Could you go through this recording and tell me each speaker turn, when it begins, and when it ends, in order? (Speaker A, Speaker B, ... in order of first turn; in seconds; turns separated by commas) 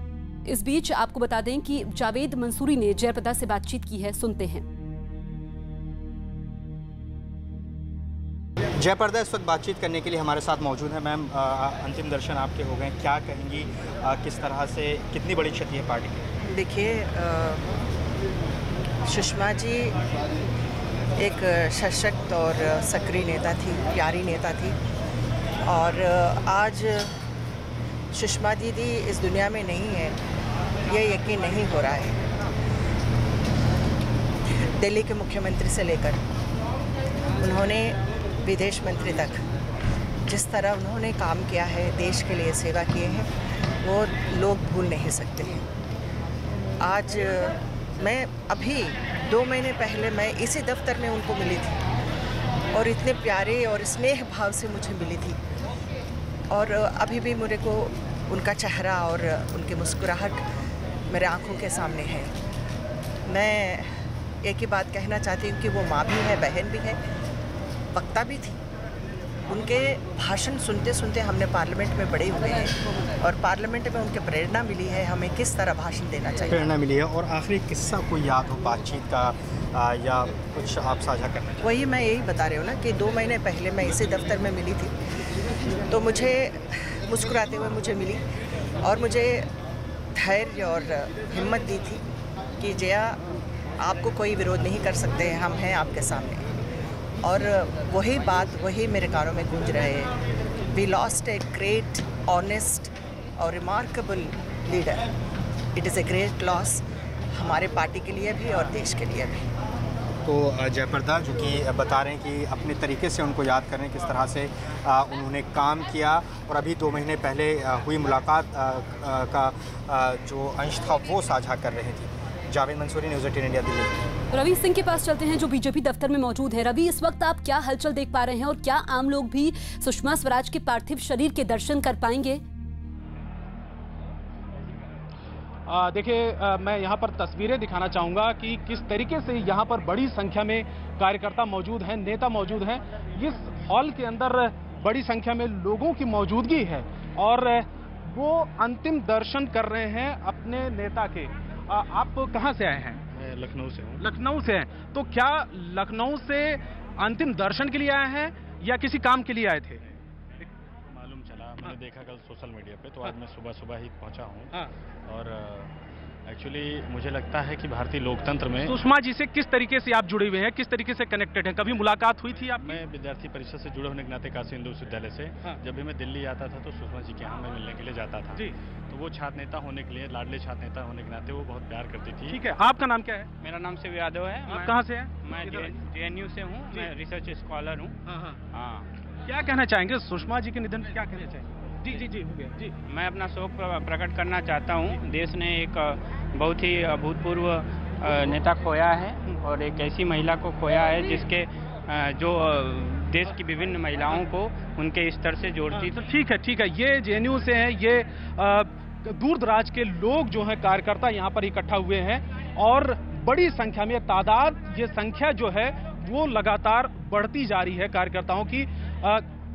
Speaker A: 0.5-4.6, Speaker B: 8.8-16.3, Speaker C: 16.5-17.7, Speaker C: 19.1-20.0, Speaker C: 21.2-24.8, Speaker C: 25.6-27.1, Speaker C: 28.1-30.2, Speaker C: 30.9-32.2, Speaker C: 34.8-36.2, Speaker C: 37.4-39.4, Speaker C: 40.3-43.3, Speaker C: 43.8-45.6, Speaker C: 46.8-51.8, Speaker C: 52.7-55.4, Speaker C: 56.5-60.4, Speaker C: 61.1-62.3, Speaker C: 63.2-63.9, Speaker C: 64.4-67.0, Speaker C: 67.9-68.6, Speaker C: 69.5-76.7, Speaker B: 76.5-81.7, Speaker C: 81.6-84.9, Speaker C: 85.9-88.2, Speaker C: 88.8-89.5, Speaker C: 90.2-92.0, Speaker C: 92.6-93.2, Speaker C: 93.8-96.5, Speaker C: 97.2-100.1, Speaker C: 100.7-105.1, Speaker C: 105.8-106.8, Speaker C: 107.3-109.4, Speaker B: 110.2-123.9, Speaker A: 124.3-132.4, Speaker D: 135.7-153.0, Speaker E: 153.1-154.1, Speaker D: 154.0-159.8, Speaker E: 160.9-165.7, Speaker E: 166.2-168.8, Speaker D: 168.7-172.7, Speaker E: 172.5-182.4, Speaker D: 182.3-183.3, Speaker F: 183.4-187.9, Speaker D: 184.5-185.7, Speaker D: 188.1-188.4, Speaker F: 188.5-188.9, Speaker D: 189.2-192.8, Speaker F: 192.8-206.0, Speaker D: 205.7-219.2